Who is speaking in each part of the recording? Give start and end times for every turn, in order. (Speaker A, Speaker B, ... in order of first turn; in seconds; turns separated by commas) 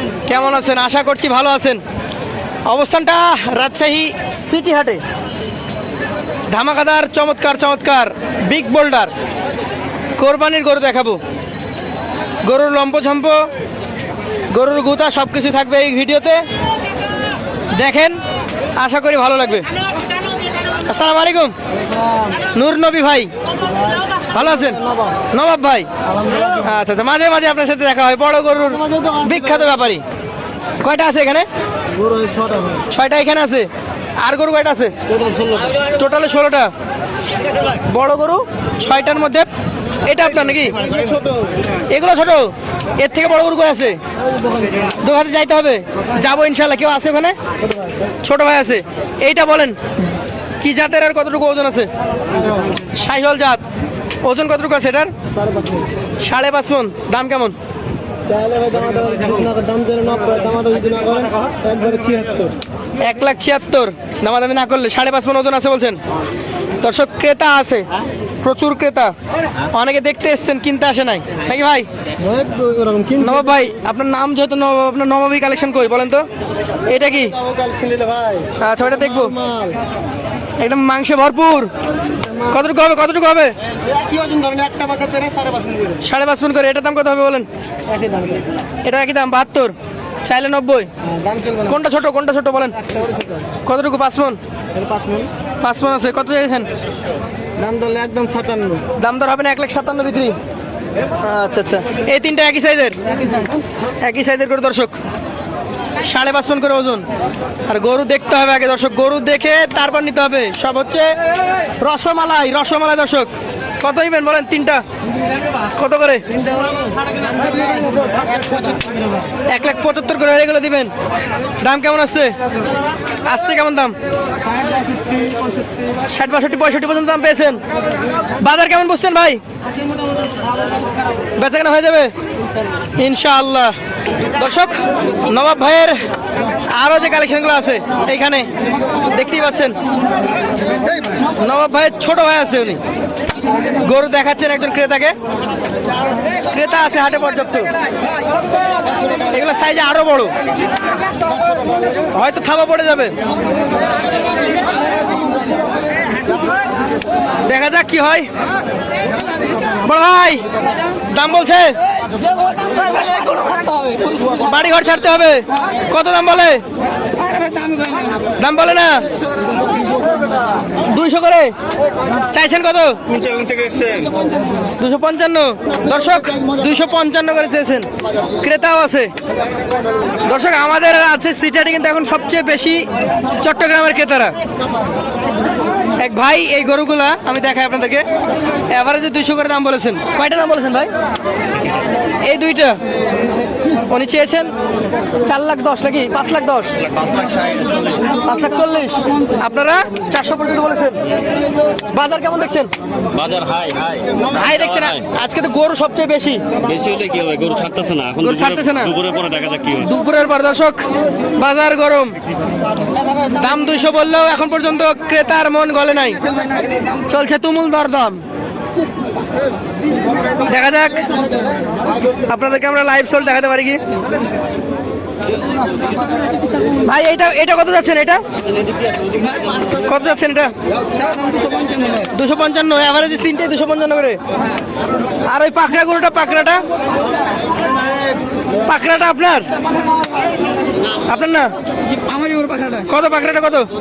Speaker A: 0.2-1.8, Speaker A: 2.7-5.0, Speaker A: 6.5-9.1, Speaker A: 10.2-11.2, Speaker A: 12.4-13.5, Speaker A: 14.5-16.4, Speaker A: 17.7-18.2, Speaker A: 18.8-19.7, Speaker A: 20.8-21.5, Speaker A: 22.5-23.3, Speaker A: 24.3-25.9, Speaker A: 26.6-30.0, Speaker A: 30.8-31.5, Speaker B: 31.9-32.8, Speaker A: 32.9-33.7, Speaker A: 34.2-34.9, Speaker B: 35.2-35.6, Speaker A: 35.8-36.7, Speaker A: 37.8-39.5, Speaker A: 40.0-40.8, Speaker B: 40.8-41.4, Speaker A: 41.9-44.0, Speaker A: 45.0-47.4, Speaker A: 48.2-49.8, Speaker A: 50.6-51.9, Speaker A: 52.9-53.6, Speaker A: 54.2-55.1, Speaker B: 55.4-55.8, Speaker A: 56.2-57.5, Speaker B: 58.3-62.5, Speaker A: 63.0-66.0, Speaker A: 66.8-67.9, Speaker A: 68.4-69.1, Speaker A: 69.7-71.9, Speaker B: 72.2-73.2, Speaker A: 73.2-76.3, Speaker A: 76.9-77.4, Speaker B: 77.5-78.5, Speaker A: 78.6-79.4, Speaker B: 79.4-79.8, Speaker A: 80.6-81.7, Speaker A: 82.4-83.5, Speaker B: 83.9-85.9, Speaker A: 86.0-87.5, Speaker B: 87.9-88.5, Speaker A: 88.8-89.7, Speaker A: 90.2-90.9, Speaker B: 91.2-91.6, Speaker A: 91.6-92.8, Speaker B: 92.9-93.2, Speaker A: 93.6-94.4, Speaker B: 94.7-95.3, Speaker A: 95.6-96.7, Speaker B: 97.6-98.8, Speaker A: 99.0-100.4, Speaker A: 101.2-103.0, Speaker A: 104.0-104.9, Speaker A: 106.0-107.0, Speaker A: 107.7-111.1, Speaker A: 111.8-114.8, Speaker A: 115.7-116.2, Speaker B: 117.5-119.0, Speaker A: 119.5-120.9, Speaker A: 121.6-122.4, Speaker A: 123.2-124.0, Speaker B: 124.6-125.5, Speaker A: 126.1-127.6, Speaker A: 128.4-129.4, Speaker A: 131.4-132.1, Speaker A: 133.0-133.8, Speaker A: 134.3-136.0, Speaker A: 136.7-138.5, Speaker A: 139.0-139.8, Speaker A: 141.3-142.8, Speaker A: 143.8-145.2, Speaker A: 146.4-147.7, Speaker A: 149.2-150.3, Speaker A: 152.1-153.1, Speaker A: 157.4-158.3, Speaker A: 159.8-161.8, Speaker C: 162.3-162.7, Speaker A: 162.8-166.6, Speaker C: 163.5-164.0, Speaker C: 167.2-168.2, Speaker A: 168.4-169.1, Speaker A: 170.8-171.5, Speaker A: 172.3-173.0, Speaker C: 173.5-174.2, Speaker A: 174.8-177.9, Speaker A: 178.4-179.1, Speaker A: 180.2-182.9, Speaker A: 183.4-184.3, Speaker A: 186.0-188.1, Speaker A: 188.7-190.9, Speaker A: 192.2-192.8, Speaker A: 193.9-194.5, Speaker A: 195.2-196.8, Speaker A: 198.2-201.0, Speaker A: 201.9-202.7, Speaker D: 203.1-204.0, Speaker A: 204.3-206.4, Speaker D: 206.6-208.3, Speaker A: 208.2-209.0, Speaker D: 208.9-209.8, Speaker A: 209.7-210.8, Speaker A: 211.4-212.1, Speaker A: 213.3-216.2, Speaker A: 217.1-218.2, Speaker A: 220.4-221.2, Speaker A: 222.3-223.8, Speaker A: 226.8-228.2, Speaker A: 229.8-230.5, Speaker C: 231.0-232.0, Speaker A: 232.0-234.2, Speaker A: 235.3-236.6, Speaker A: 238.6-239.5, Speaker A: 241.1-241.5, Speaker C: 242.0-242.8, Speaker A: 242.8-243.7